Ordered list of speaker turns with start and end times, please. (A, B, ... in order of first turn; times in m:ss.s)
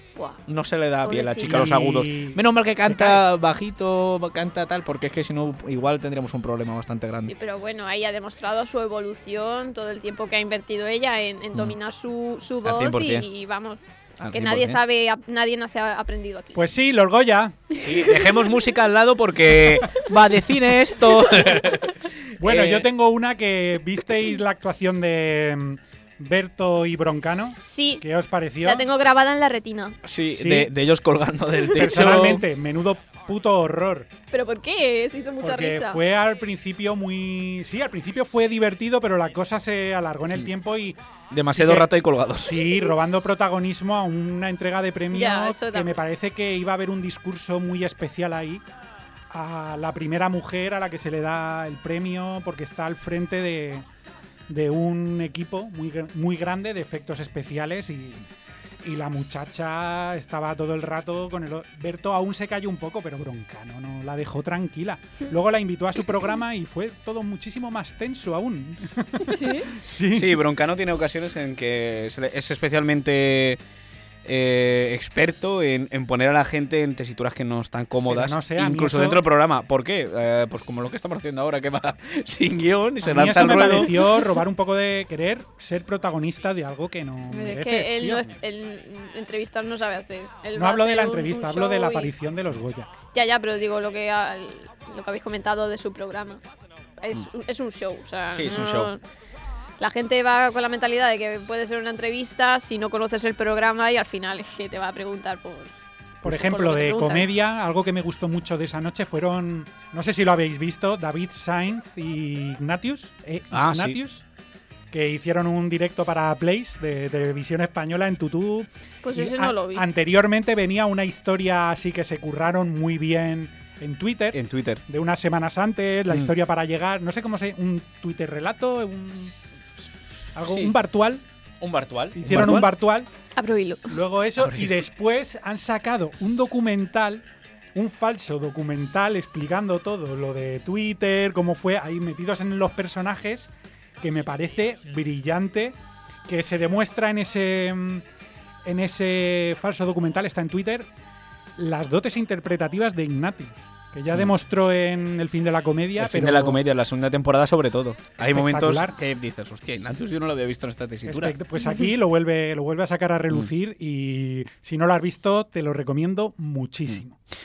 0:00.2-0:00.4 A
0:00.5-0:07.3 B
0:01.0-0:01.6 A
0:01.4-0:03.2 C
0:07.2-0:13.8 A
0:12.6-0:13.2 B
0:14.2-0:14.8 B
0:14.3-0:16.6 A
0:16.5-0:17.6 C
0:17.8-0:22.9 B
0:22.4-0:28.9 C
0:27.6-0:28.0 A
0:28.6-0:30.0 A
0:30.0-0:32.4 B
0:30.3-0:30.7 C
0:31.7-0:34.1 C
0:34.3-0:36.0 A
0:35.4-0:41.0 C
0:41.3-0:42.7 B
0:41.5-0:41.9 C
0:42.4-0:48.6 C
0:45.1-0:45.9 A
0:49.3-0:53.8 C
0:54.5-0:58.3 C
0:58.8-1:10.4 C
1:09.2-1:09.7 A
1:10.1-1:13.6 B
1:14.2-1:24.0 B
1:18.1-1:19.2 C
1:23.0-1:28.2 C
1:27.3-1:32.1 A
1:30.6-1:32.9 C
1:33.1-1:36.4 A
1:37.0-1:39.0 A
1:38.3-1:38.9 B
1:39.8-1:45.7 A
1:46.2-1:47.2 A
1:46.2-1:54.2 C
1:53.5-1:54.0 B
1:54.9-2:09.3 C
1:59.0-1:59.8 A
2:04.3-2:04.8 B
2:10.3-2:11.2 C
2:10.4-2:10.7 B
2:11.6-2:12.7 B
2:12.1-2:13.1 C
2:13.3-2:14.0 A
2:13.9-2:17.2 C
2:14.4-2:14.7 B
2:17.7-2:23.5 C
2:24.0-2:25.8 C
2:26.3-2:28.0 C
2:28.6-2:30.9 C
2:31.6-2:36.6 C
2:36.0-2:41.3 B
2:38.2-2:38.9 C
2:41.0-2:47.1 C